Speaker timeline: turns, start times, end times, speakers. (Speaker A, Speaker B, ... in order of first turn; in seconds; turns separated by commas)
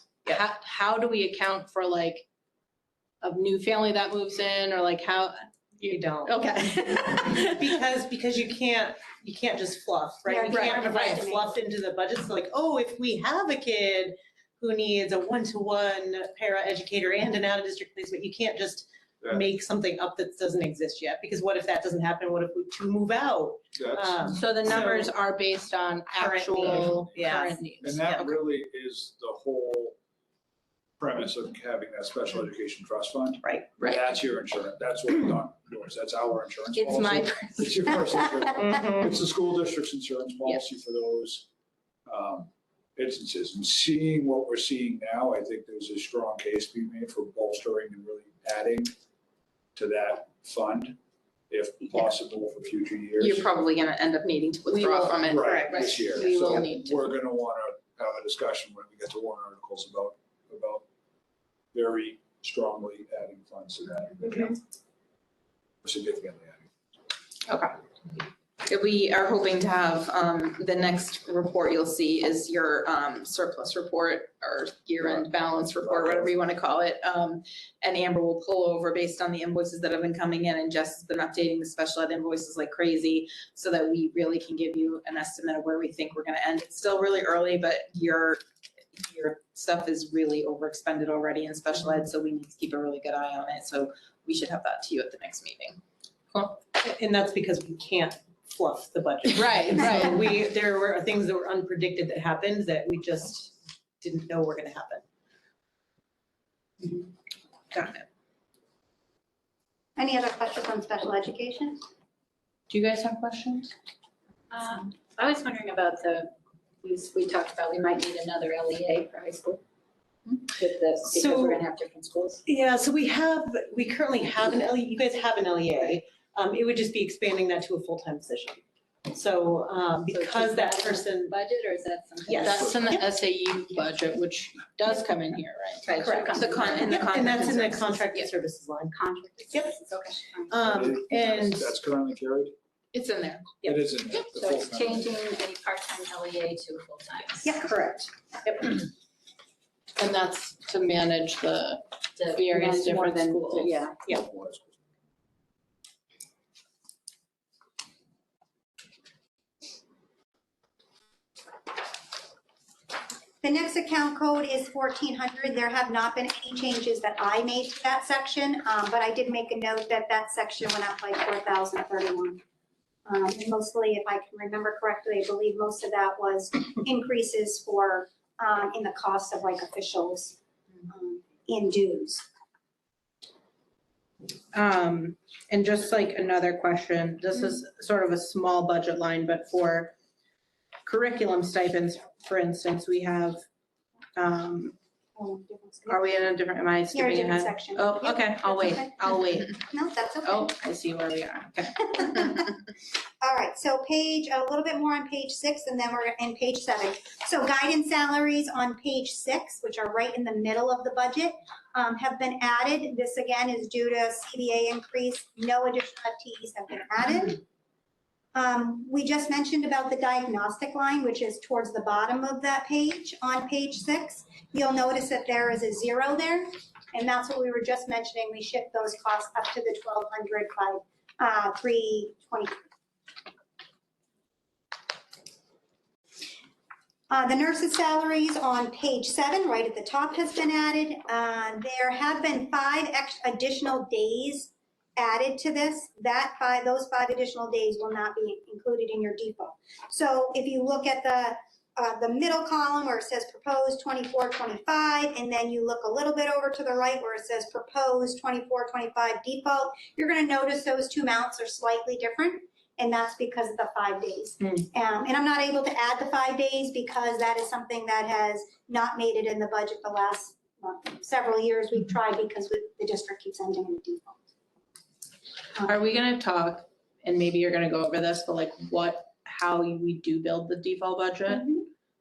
Speaker A: 0.3-2.2, Speaker A: 3.2-7.8, Speaker B: 5.8-6.4, Speaker B: 7.4-25.1, Speaker C: 10.3-11.6, Speaker A: 10.5-10.9, Speaker D: 23.7-25.0, Speaker A: 24.3-28.2, Speaker B: 26.2-28.3, Speaker D: 26.6-30.0, Speaker D: 31.0-41.5, Speaker B: 33.4-33.7, Speaker A: 36.7-38.0, Speaker D: 42.1-48.9, Speaker D: 49.8-51.0, Speaker D: 51.5-53.5, Speaker E: 53.2-55.7, Speaker A: 54.7-57.0, Speaker D: 55.2-60.8, Speaker B: 55.4-56.2, Speaker D: 61.7-64.6, Speaker D: 65.8-66.6, Speaker E: 67.5-67.7, Speaker E: 68.7-88.4, Speaker D: 75.0-76.3, Speaker E: 88.9-95.8, Speaker B: 96.6-105.0, Speaker A: 99.3-100.2, Speaker A: 107.7-108.0, Speaker C: 110.0-111.8, Speaker A: 112.7-113.7, Speaker F: 114.5-119.6, Speaker F: 120.3-122.4, Speaker B: 121.1-121.6, Speaker B: 122.5-131.3, Speaker F: 130.1-133.0, Speaker B: 132.3-133.0, Speaker A: 132.4-137.2, Speaker D: 132.5-132.9, Speaker F: 135.8-137.6, Speaker B: 136.0-138.9, Speaker E: 136.4-138.2, Speaker F: 138.9-141.0, Speaker B: 140.5-141.7, Speaker D: 140.7-142.5, Speaker A: 142.9-143.5, Speaker D: 143.6-145.2, Speaker F: 144.1-147.6, Speaker C: 147.4-147.8, Speaker B: 147.6-148.1, Speaker A: 150.0-153.7, Speaker F: 152.2-154.1, Speaker D: 154.1-154.8, Speaker C: 163.4-172.4, Speaker C: 173.1-180.4, Speaker C: 180.9-182.3, Speaker A: 184.5-189.9, Speaker A: 190.8-193.4, Speaker A: 194.2-194.7, Speaker C: 195.2-196.3, Speaker A: 195.9-199.6, Speaker C: 196.9-200.5, Speaker A: 200.2-202.5, Speaker C: 201.9-202.5, Speaker C: 203.2-217.4, Speaker C: 218.3-232.6, Speaker C: 237.1-274.2, Speaker A: 275.6-281.5, Speaker C: 281.3-281.6